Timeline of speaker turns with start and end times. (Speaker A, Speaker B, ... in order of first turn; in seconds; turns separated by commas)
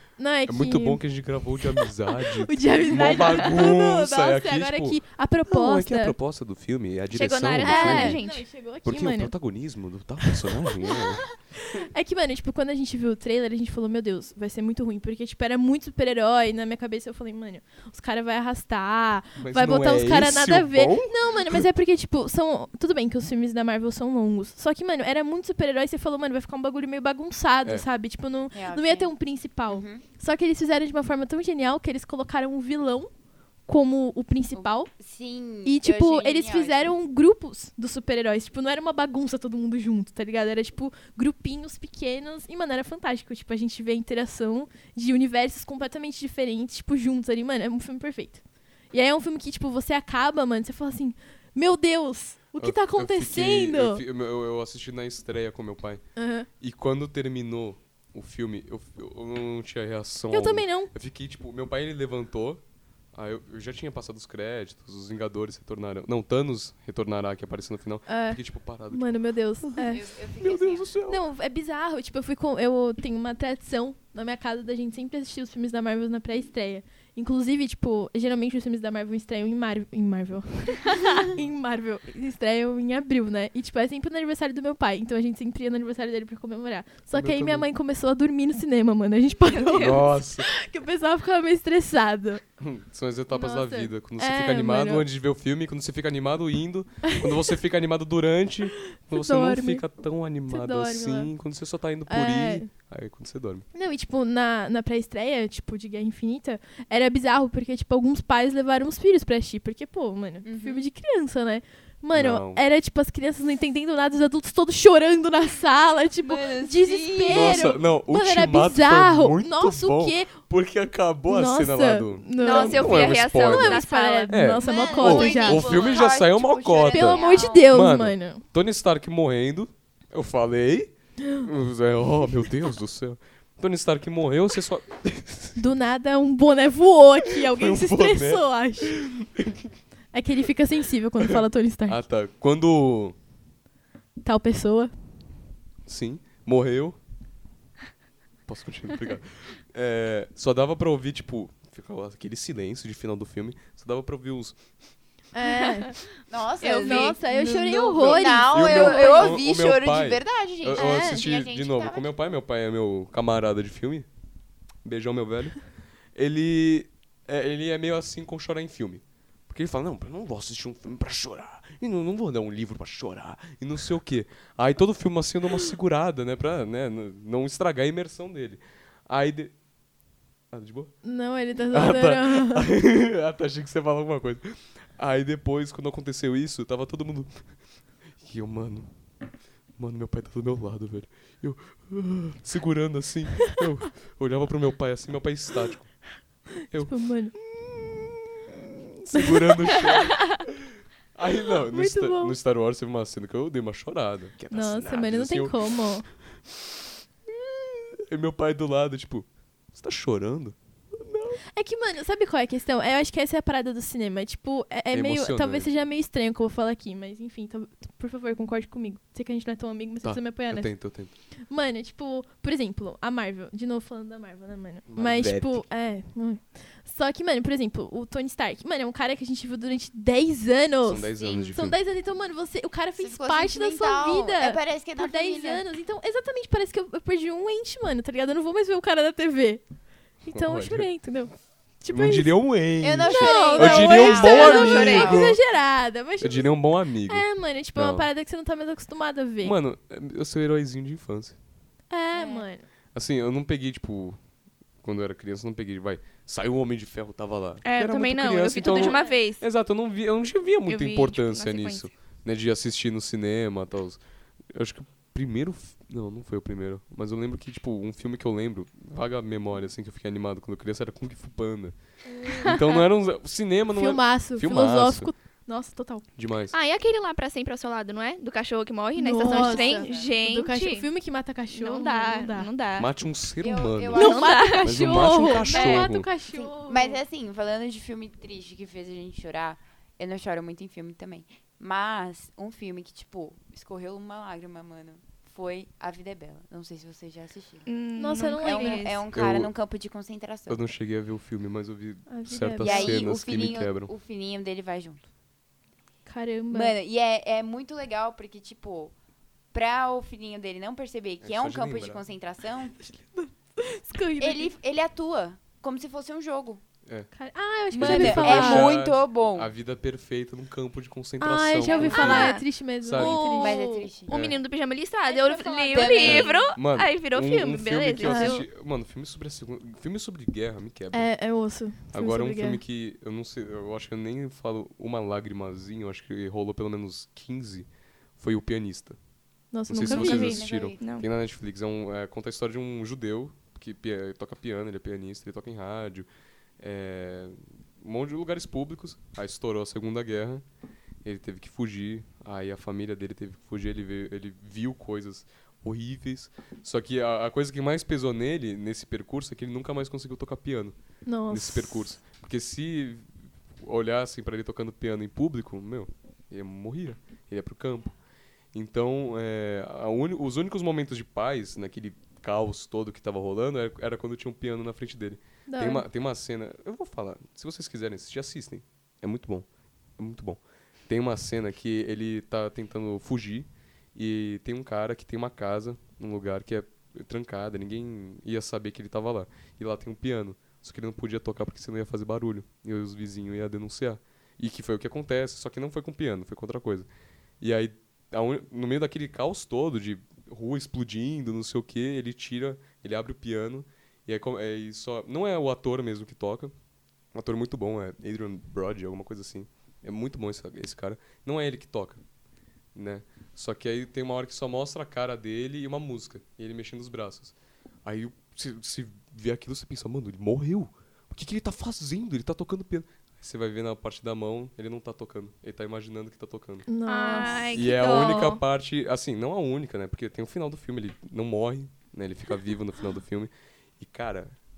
Speaker A: 0.2-1.0, Speaker B: 0.5-8.2, Speaker A: 1.6-6.2, Speaker C: 7.1-8.5, Speaker A: 7.6-9.3, Speaker B: 8.8-11.3, Speaker A: 10.2-11.0, Speaker A: 11.6-33.1, Speaker B: 19.4-21.7, Speaker D: 28.5-29.1, Speaker D: 29.7-30.0, Speaker A: 33.7-34.9, Speaker D: 34.5-37.0, Speaker A: 35.6-48.4, Speaker A: 48.9-54.0, Speaker B: 52.6-56.0, Speaker A: 56.2-56.5, Speaker B: 56.6-62.6, Speaker A: 60.3-60.9, Speaker B: 63.1-69.9, Speaker A: 68.1-70.1, Speaker D: 69.8-70.9, Speaker B: 70.4-71.2, Speaker A: 71.1-92.4, Speaker B: 87.1-87.7, Speaker C: 89.5-90.0, Speaker B: 89.7-90.5, Speaker B: 92.6-103.7, Speaker A: 93.3-95.1, Speaker A: 97.1-97.4, Speaker A: 98.8-99.8, Speaker A: 100.5-101.3, Speaker A: 102.1-102.7, Speaker A: 103.7-120.4, Speaker D: 110.4-110.9, Speaker B: 112.1-112.6, Speaker D: 116.2-117.7, Speaker B: 117.3-135.6, Speaker A: 121.3-125.7, Speaker C: 122.4-126.1, Speaker D: 122.4-122.8, Speaker D: 124.6-127.7, Speaker A: 126.9-128.4, Speaker A: 131.2-131.5, Speaker A: 135.6-139.0, Speaker B: 137.3-139.7, Speaker A: 140.1-142.0, Speaker B: 141.2-143.2, Speaker A: 144.2-144.9, Speaker B: 145.9-147.0, Speaker B: 148.5-154.6, Speaker A: 155.3-156.0, Speaker D: 156.3-162.1, Speaker C: 156.6-157.2, Speaker A: 156.7-159.4, Speaker B: 158.0-164.1, Speaker A: 160.7-161.3, Speaker B: 164.8-165.6, Speaker B: 166.2-179.5, Speaker B: 180.5-180.9, Speaker A: 181.0-182.7, Speaker B: 181.7-187.4, Speaker B: 188.2-188.9, Speaker B: 189.8-196.0, Speaker B: 196.7-205.7, Speaker A: 196.7-197.3, Speaker A: 199.1-199.8, Speaker A: 201.7-202.4, Speaker A: 204.5-206.1, Speaker B: 206.5-206.8, Speaker B: 207.3-211.4, Speaker A: 211.5-220.7, Speaker B: 214.9-215.7, Speaker B: 220.0-221.1, Speaker A: 221.5-239.6, Speaker B: 224.9-225.7, Speaker B: 230.8-231.8, Speaker D: 231.2-231.5, Speaker D: 233.0-235.6, Speaker A: 240.2-242.3, Speaker B: 240.3-240.9, Speaker B: 241.9-245.4, Speaker D: 242.8-245.3, Speaker A: 243.1-249.6, Speaker C: 244.1-245.2, Speaker B: 246.2-248.1, Speaker B: 249.4-251.4, Speaker A: 251.9-252.7, Speaker D: 252.1-252.5, Speaker B: 252.9-254.2, Speaker B: 254.8-271.8, Speaker C: 257.6-259.4, Speaker D: 258.6-259.2, Speaker C: 260.7-261.9, Speaker A: 272.2-272.6, Speaker B: 272.4-275.1, Speaker A: 273.7-276.1, Speaker B: 276.2-276.6, Speaker C: 276.5-280.9, Speaker A: 279.0-282.5, Speaker D: 279.2-280.1, Speaker C: 281.5-282.9, Speaker B: 282.8-286.1, Speaker D: 283.4-297.7, Speaker C: 283.9-284.7, Speaker A: 283.9-287.0, Speaker C: 297.7-299.1, Speaker A: 298.0-298.9, Speaker D: 298.4-300.6, Speaker B: 299.1-299.5, Speaker B: 300.5-303.9, Speaker A: 302.1-303.1, Speaker D: 302.6-305.1, Speaker A: 306.1-306.8, Speaker D: 306.5-308.9, Speaker D: 309.5-312.8, Speaker B: 311.2-312.0, Speaker A: 312.8-314.5, Speaker D: 314.2-316.6, Speaker A: 317.1-318.8, Speaker D: 317.7-319.5, Speaker B: 317.7-323.2, Speaker A: 321.2-323.9, Speaker C: 321.7-328.4, Speaker D: 321.7-322.2, Speaker D: 323.2-324.1, Speaker B: 324.1-324.4, Speaker D: 325.1-326.5, Speaker B: 326.0-331.1, Speaker A: 328.0-328.4, Speaker A: 330.9-332.6, Speaker B: 331.9-339.0, Speaker A: 339.5-340.4, Speaker B: 339.7-346.1, Speaker D: 339.8-340.9, Speaker C: 340.8-341.1, Speaker B: 346.6-350.4, Speaker B: 351.0-360.8, Speaker A: 361.1-361.9, Speaker B: 361.3-367.9, Speaker B: 368.5-379.5, Speaker A: 375.5-375.9, Speaker B: 380.0-396.9, Speaker B: 397.4-406.5, Speaker B: 407.1-412.0, Speaker B: 412.8-426.7, Speaker A: 426.7-427.6, Speaker C: 426.9-428.4, Speaker B: 427.5-434.4